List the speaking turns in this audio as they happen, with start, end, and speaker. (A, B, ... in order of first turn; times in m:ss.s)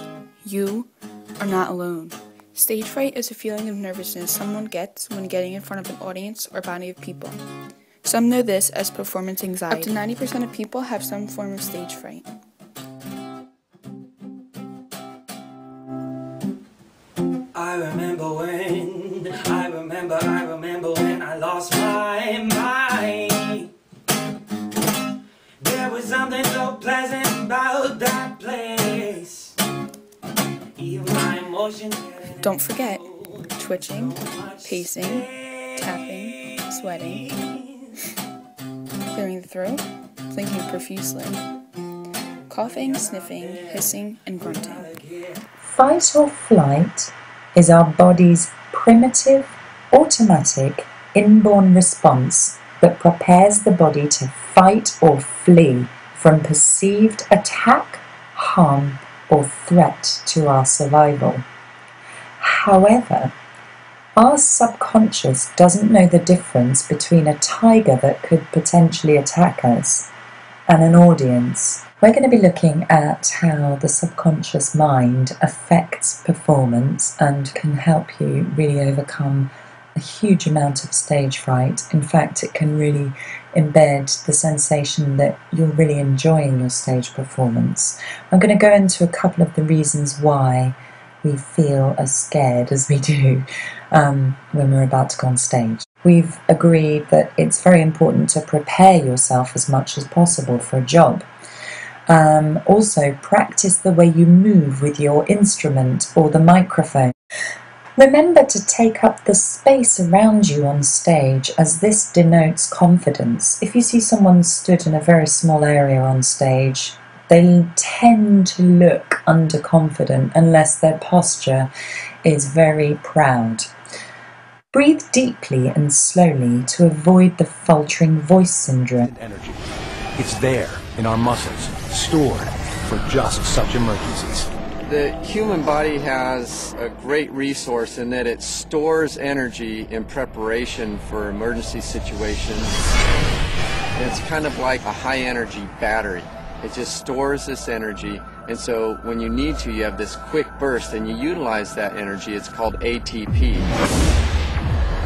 0:00.4-0:07.4 A
0:08.0-0:12.2 A
0:17.5-0:23.7 B
0:25.6-0:29.6 B
0:30.8-0:37.9 B
0:32.4-0:33.0 A
0:33.6-0:37.2 A
0:39.1-0:41.4 A
0:42.5-0:44.9 A
0:42.6-0:45.3 B
0:45.6-1:01.4 C
1:02.4-1:03.3 C
1:04.2-1:10.1 C
1:10.7-1:41.2 C
1:42.1-1:47.1 C
1:48.0-2:01.7 C
2:02.2-2:03.7 C
2:04.7-2:09.1 C
2:09.0-2:09.6 D
2:10.2-2:14.5 D
2:14.8-2:22.9 B
2:24.0-2:33.7 B